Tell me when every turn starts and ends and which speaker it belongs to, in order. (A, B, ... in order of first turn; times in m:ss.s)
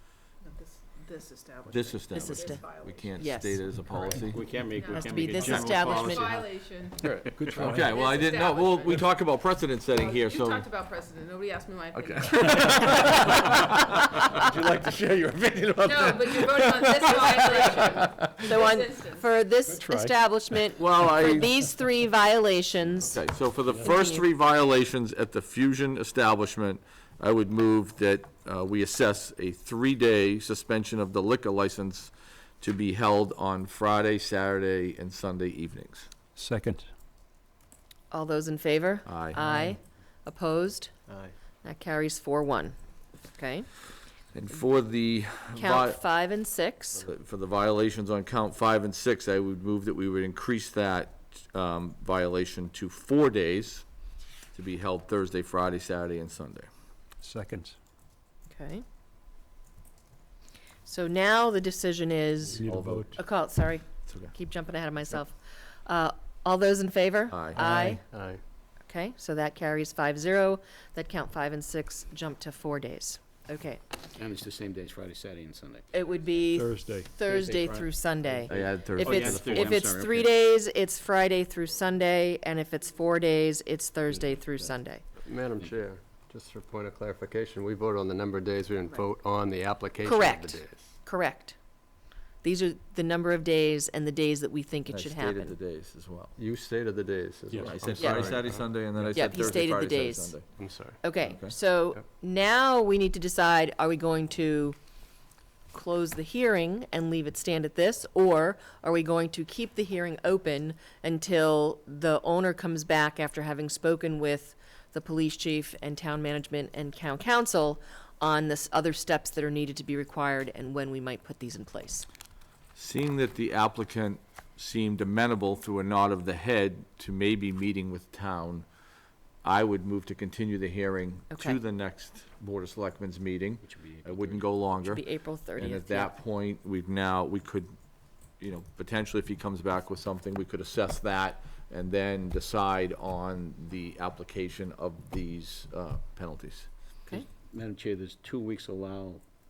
0:00.4-0:04.1 A
0:01.7-0:04.4 B
0:02.2-0:02.6 C
0:03.2-0:03.6 C
0:04.2-0:06.5 D
0:04.8-0:09.3 A
0:04.8-0:06.4 C
0:07.0-0:07.3 E
0:07.3-0:08.1 F
0:07.5-0:10.7 B
0:09.8-0:13.8 A
0:11.9-0:18.6 B
0:12.8-0:13.3 C
0:15.8-0:19.4 A
0:17.0-0:17.8 C
0:18.4-0:23.2 C
0:19.7-0:20.1 F
0:20.8-0:21.4 B
0:23.0-0:36.1 B
0:23.8-0:24.2 C
0:36.4-0:36.9 F
0:38.1-0:40.9 C
0:39.1-0:39.5 B
0:39.4-0:39.7 F
0:41.1-0:41.4 E
0:41.6-0:42.7 C
0:43.4-0:43.7 C
0:44.3-0:46.0 B
0:45.6-0:47.0 C
0:47.0-0:53.8 B
0:54.5-0:56.7 B
0:57.2-0:57.8 F
0:58.5-0:58.8 C
1:00.9-1:08.0 C
1:02.6-1:03.2 F
1:02.6-1:03.1 B
1:04.1-1:04.3 B
1:07.3-1:07.7 B
1:07.5-1:08.0 F
1:08.1-1:08.4 E
1:08.9-1:13.8 C
1:14.2-1:15.9 D
1:15.9-1:25.0 C
1:16.5-1:17.1 F
1:17.2-1:20.3 D
1:18.5-1:19.8 B
1:25.2-1:31.0 E
1:30.0-1:31.6 C
1:32.4-1:35.6 C
1:34.9-1:36.4 B
1:36.4-1:38.7 E
1:37.5-1:37.9 F
1:37.6-1:40.5 B
1:38.0-1:38.3 C
1:39.0-1:39.3 F
1:39.1-1:40.4 C
1:40.5-1:41.0 E
1:41.0-1:44.8 C
1:41.2-1:41.5 B
1:45.7-2:02.1 C
2:02.8-2:08.6 B
2:09.4-2:15.0 B
2:11.3-2:11.6 C
2:13.6-2:14.6 D
2:14.8-2:16.2 C
2:15.6-2:17.7 B
2:18.4-2:26.7 B
2:27.1-2:29.2 D